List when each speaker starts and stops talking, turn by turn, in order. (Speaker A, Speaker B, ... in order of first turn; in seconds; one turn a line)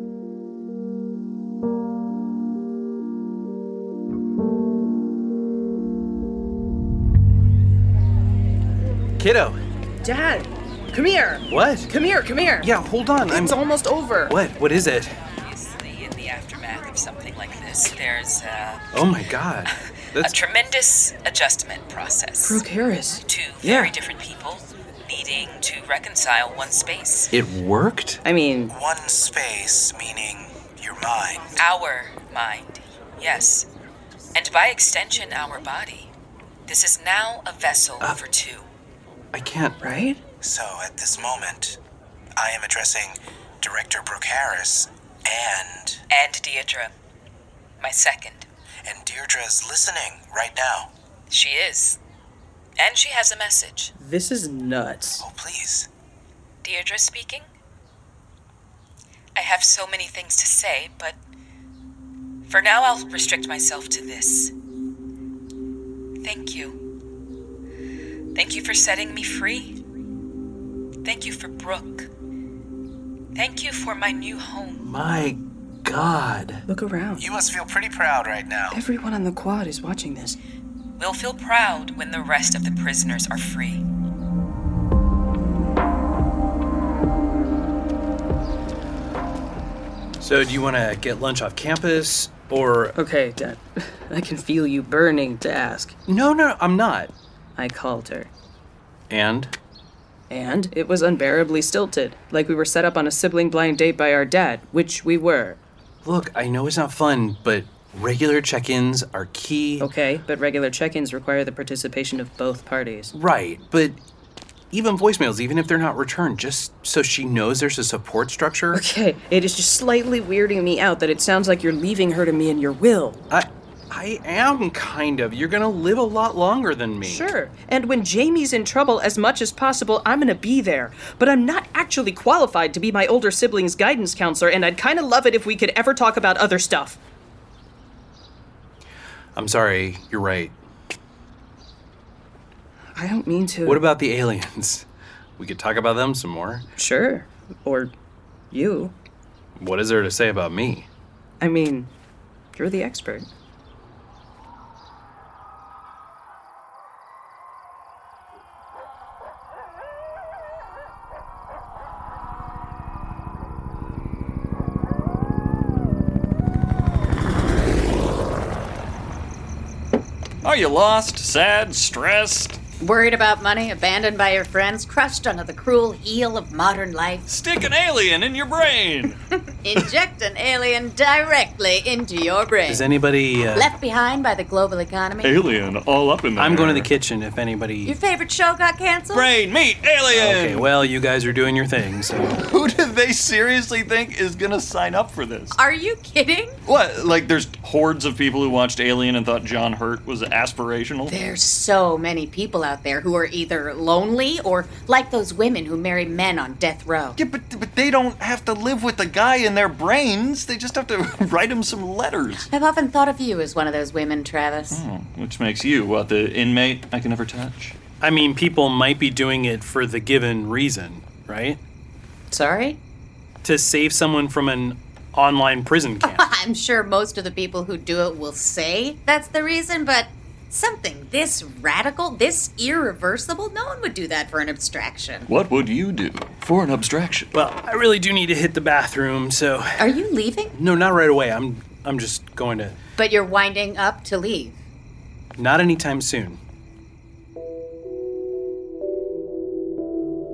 Speaker A: 9.2-9.6
Speaker B: 10.0-12.7
Speaker A: 11.5-11.9
Speaker A: 12.6-13.6
Speaker B: 13.3-14.3
Speaker A: 14.3-15.1
Speaker C: 15.4-18.9
Speaker A: 18.9-20.4
Speaker C: 20.2-22.6
Speaker B: 22.4-23.9
Speaker C: 23.2-27.3
Speaker A: 27.3-28.2
Speaker B: 28.2-28.7
Speaker D: 28.7-31.6
Speaker C: 31.6-33.7
Speaker C: 34.3-36.1
Speaker C: 36.7-38.7
Speaker A: 39.3-39.8
Speaker B: 39.8-40.2
Speaker D: 40.4-41.8
Speaker D: 42.4-46.0
Speaker C: 46.1-46.9
Speaker C: 47.8-48.5
Speaker D: 48.9-50.9
Speaker C: 51.3-52.0
Speaker C: 52.8-53.9
Speaker B: 54.0-55.2
Speaker D: 55.2-55.9
Speaker C: 56.6-57.5
Speaker C: 59.3-61.2
Speaker C: 62.4-64.5
Speaker C: 66.2-66.8
Speaker C: 68.3-69.8
Speaker C: 71.0-72.1
Speaker C: 73.3-74.8
Speaker A: 74.8-76.6
Speaker B: 76.7-77.3
Speaker D: 77.2-78.8
Speaker B: 78.7-80.4
Speaker C: 81.0-83.8
Speaker A: 90.2-92.9
Speaker B: 92.9-95.9
Speaker A: 96.1-97.1
Speaker B: 97.5-98.3
Speaker A: 99.1-99.5
Speaker B: 100.3-105.6
Speaker A: 106.0-109.9
Speaker B: 109.8-113.1
Speaker A: 113.1-114.0
Speaker A: 114.7-118.8
Speaker B: 118.7-123.2
Speaker A: 123.3-127.3
Speaker B: 127.0-137.0
Speaker A: 139.3-140.6
Speaker B: 142.9-143.8
Speaker A: 143.6-146.7
Speaker B: 146.8-147.9
Speaker B: 148.5-148.9
Speaker A: 149.6-150.9
Speaker B: 151.4-151.9
Speaker B: 152.5-153.3
Speaker E: 170.4-172.6
Speaker F: 172.8-177.2
Speaker E: 177.3-179.2
Speaker F: 179.6-182.8
Speaker A: 182.7-183.7
Speaker F: 183.5-185.4
Speaker E: 185.2-186.9
Speaker A: 186.4-187.9
Speaker F: 187.8-189.3
Speaker E: 189.1-190.7
Speaker A: 190.1-192.4
Speaker E: 192.3-195.6
Speaker F: 195.5-196.6
Speaker E: 196.7-201.1
Speaker F: 201.1-207.2
Speaker E: 207.2-212.5
Speaker F: 212.4-214.8
Speaker E: 214.7-217.8
Speaker A: 218.0-221.6
Speaker F: 222.3-222.8
Speaker A: 223.4-226.2
Speaker F: 226.0-235.3
Speaker E: 235.3-237.3
Speaker A: 237.3-239.8
Speaker F: 239.8-240.5
Speaker A: 240.5-242.8
Speaker F: 243.0-244.6
Speaker A: 245.4-246.4